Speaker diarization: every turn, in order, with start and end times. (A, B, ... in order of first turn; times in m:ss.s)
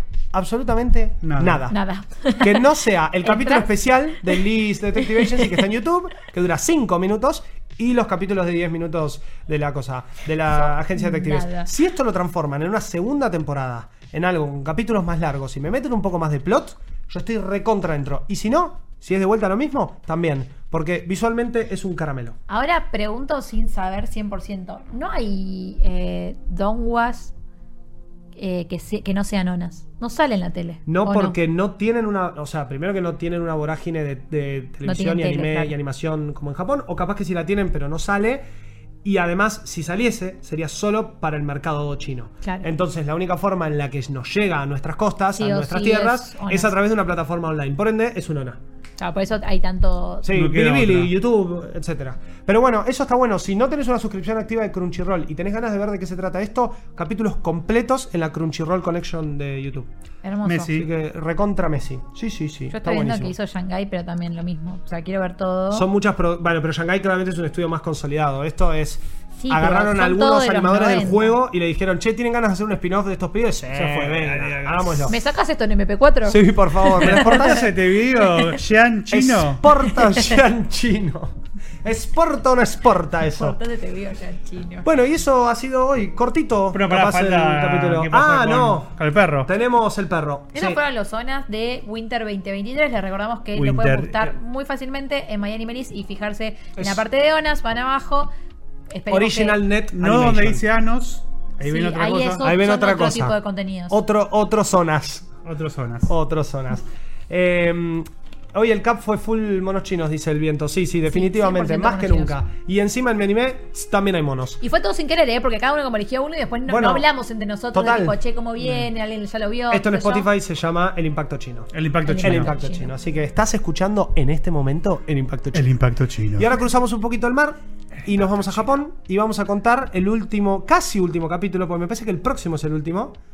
0:00.3-0:01.8 A
0:01.2-0:01.6 B
0:01.7-0:02.7 C
0:02.4-0:22.4 A
0:03.2-0:04.4 C
0:05.0-0:05.6 C
0:10.9-0:11.7 C
0:22.5-0:27.3 C
0:28.4-0:31.4 C
0:30.9-0:38.4 A
0:34.8-0:35.7 C
0:39.0-0:48.6 A
0:45.4-0:46.7 C
0:49.0-0:50.3 C
0:50.2-0:59.9 A
0:50.3-0:51.1 B
1:00.2-1:00.8 C
1:00.4-1:00.9 B
1:00.7-1:03.4 A
1:02.7-1:05.9 C
1:05.7-1:15.2 A
1:09.4-1:11.4 C
1:13.7-1:15.1 B
1:15.1-1:17.7 C
1:16.3-1:17.7 A
1:17.0-1:19.7 B
1:18.2-1:18.6 C
1:19.1-1:23.6 A
1:19.9-1:20.4 C
1:23.3-1:24.9 C
1:24.8-1:28.9 A
1:26.7-1:29.5 B
1:29.4-1:30.8 A
1:30.5-1:38.3 C
1:33.6-1:34.3 B
1:36.8-1:37.0 A
1:38.9-1:39.6 C
1:39.1-1:40.6 A
1:39.9-1:42.4 B
1:41.6-1:44.0 C
1:42.4-1:43.4 A
1:43.9-1:45.3 A
1:45.4-1:46.1 B
1:46.1-1:54.6 A
1:51.1-1:52.4 C
1:54.6-2:00.3 C
1:56.7-1:57.1 A
1:57.7-1:58.2 A
1:58.6-1:58.9 B
1:59.7-2:05.8 A
2:01.7-2:02.5 B
2:02.0-2:02.9 C
2:05.5-2:06.5 B
2:06.4-2:13.2 A